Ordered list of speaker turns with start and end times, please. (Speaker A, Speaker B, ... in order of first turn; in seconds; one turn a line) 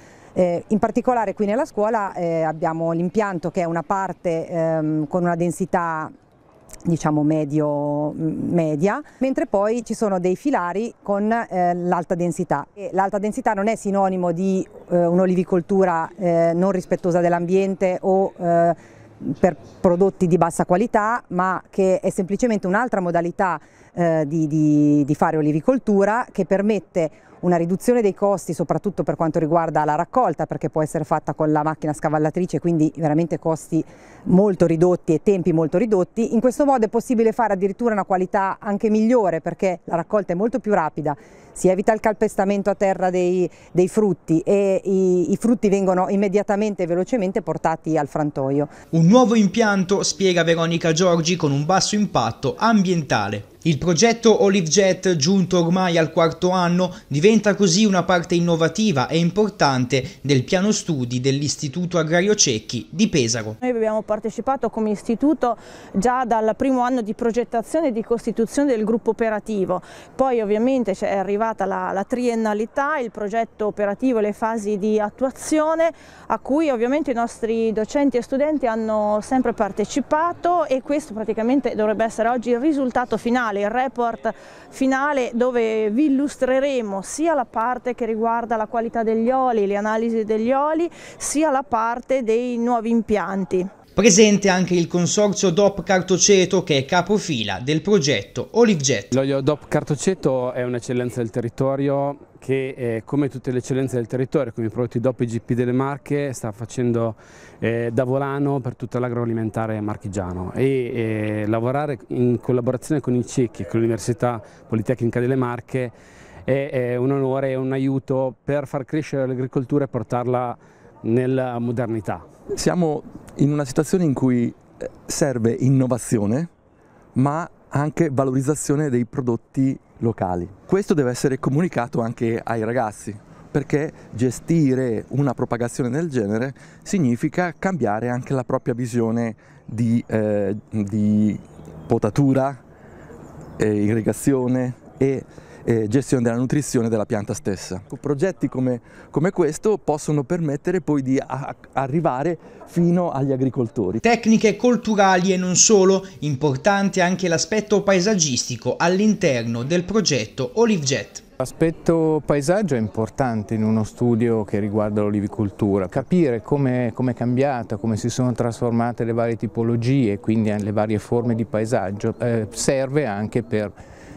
Speaker A: 0.3-6.1
Speaker A: 6.8-48.7
Speaker B: 48.9-63.6
Speaker C: 63.6-93.7
Speaker B: 94.0-99.2
Speaker D: 99.1-115.9
Speaker D: 116.5-122.2
Speaker E: 122.5-126.5
Speaker E: 127.2-142.6
Speaker E: 143.6-154.0
Speaker B: 154.0-161.2
Speaker F: 161.4-173.7